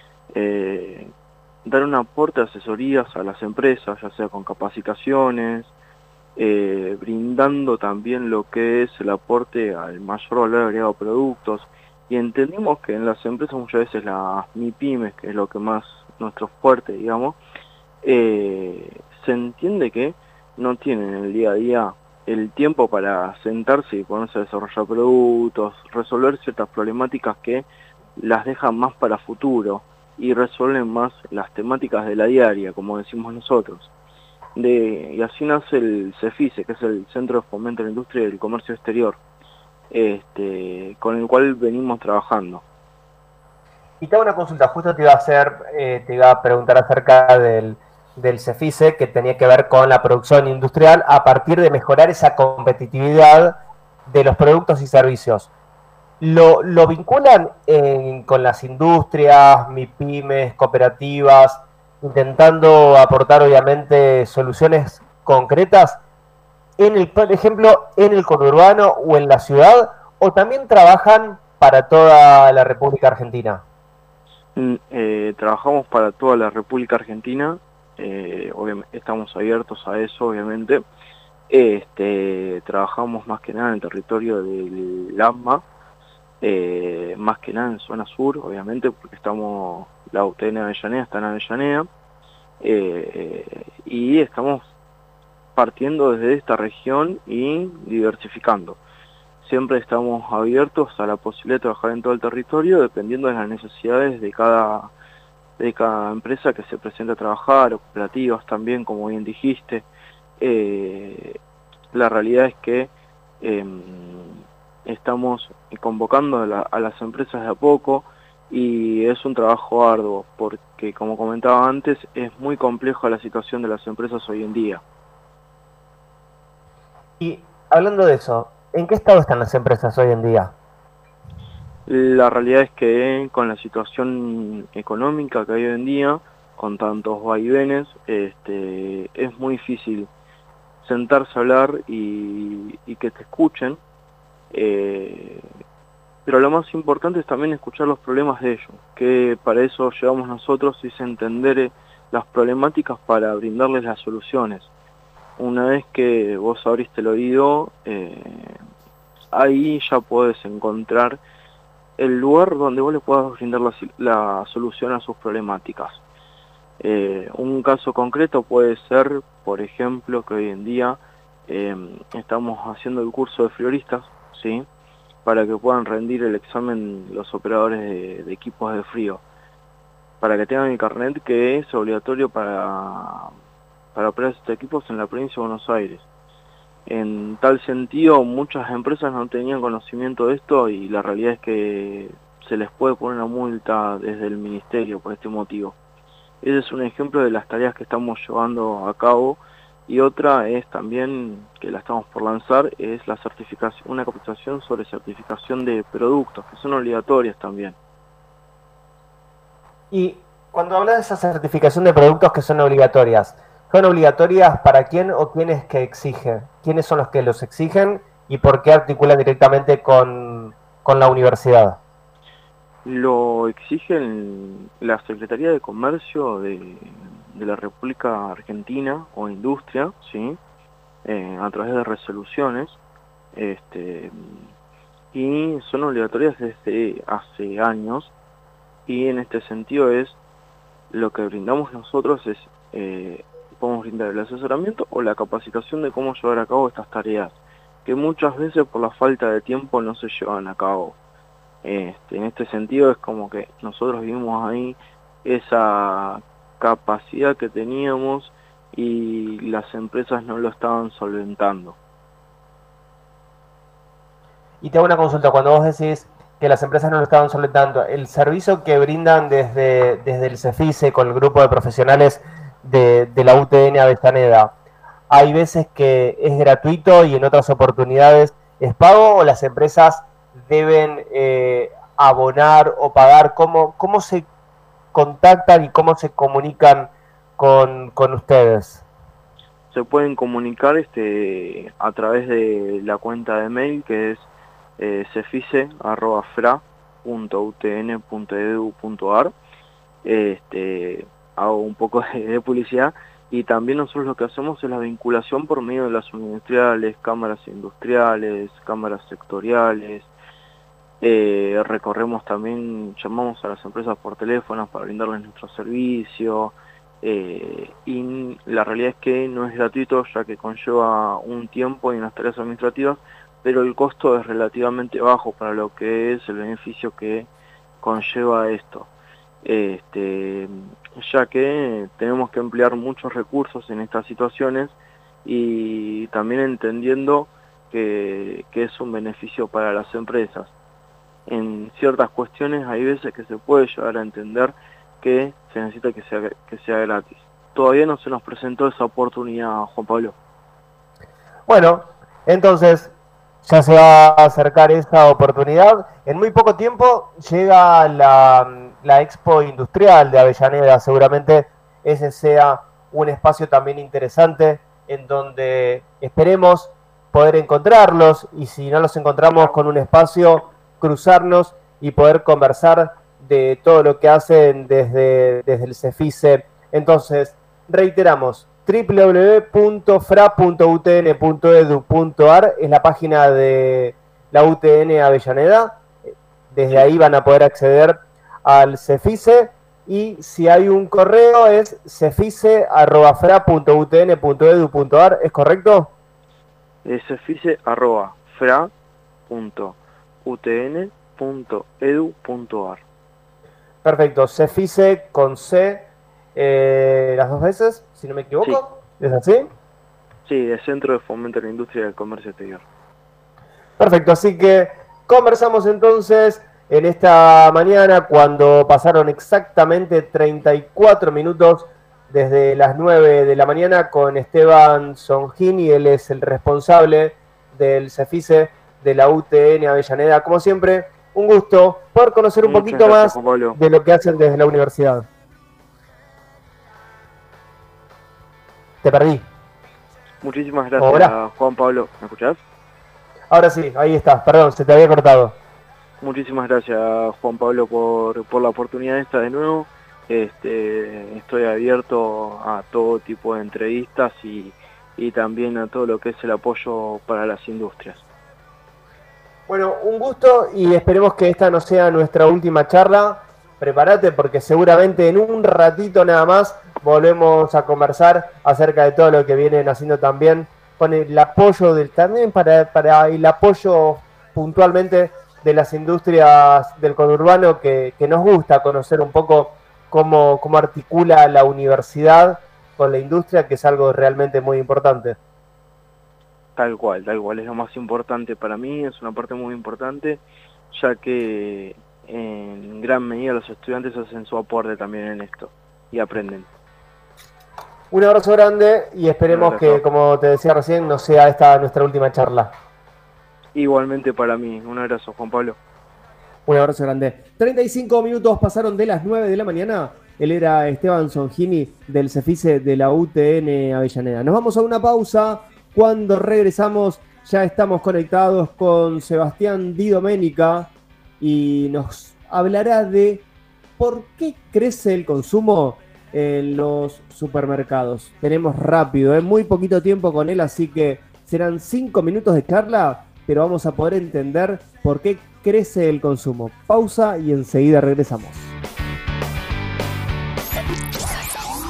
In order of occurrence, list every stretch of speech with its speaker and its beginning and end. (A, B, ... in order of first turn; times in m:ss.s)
0:00.3-0:01.1 A
0:01.6-0:05.7 A
0:06.4-0:17.4 A
0:18.0-0:33.9 A
0:34.6-0:39.2 A
0:39.9-0:42.6 A
0:44.0-0:55.5 B
0:56.2-1:06.0 B
1:06.8-1:13.6 B
1:14.6-1:20.8 A
1:21.5-1:25.6 A
1:26.4-1:31.9 A
1:32.6-1:34.7 A
1:35.6-1:38.8 A
1:39.4-1:44.9 A
1:45.6-1:49.9 A
1:50.4-1:51.4 A
1:51.9-2:04.8 A
2:07.2-2:10.5 B
2:11.9-2:20.1 A
2:20.8-2:23.8 A
2:24.5-2:25.5 A
2:26.2-2:34.7 A
2:35.4-2:38.6 A
2:39.3-2:41.2 A
2:42.0-2:46.0 A
2:46.8-2:54.7 A
2:55.2-2:59.2 A
3:00.2-3:03.3 A
3:03.9-3:06.1 A
3:06.9-3:15.8 A
3:16.4-3:27.8 A
3:29.9-3:41.8 B
3:42.8-3:50.4 A
3:51.0-3:52.8 A
3:53.3-3:54.5 A
3:55.1-3:58.1 A
3:58.9-4:00.2 A
4:00.9-4:11.0 A
4:11.6-4:21.8 A
4:24.6-4:34.5 B
4:35.1-4:44.3 B
4:44.9-4:48.8 B
4:49.7-4:59.3 A
5:00.0-5:10.1 A
5:11.0-5:27.3 A
5:27.8-5:28.9 A
5:29.4-5:40.5 A
5:41.3-5:50.1 A
5:51.5-5:52.9 B
5:53.4-6:35.9 B
6:36.8-6:38.7 A
6:39.3-6:42.8 A
6:43.8-6:49.5 B
6:50.2-6:52.6 A
6:53.8-7:15.1 B
7:12.4-7:13.6 A
7:18.8-7:19.3 B
7:20.2-7:22.4 A
7:20.8-7:21.1 B
7:23.3-7:25.4 B
7:26.0-7:38.0 A
7:39.5-8:05.2 B
8:06.6-8:16.5 A
8:17.9-8:22.5 B
8:19.3-8:19.8 A
8:23.5-8:25.6 A
8:26.5-8:43.2 B
8:43.8-8:58.5 B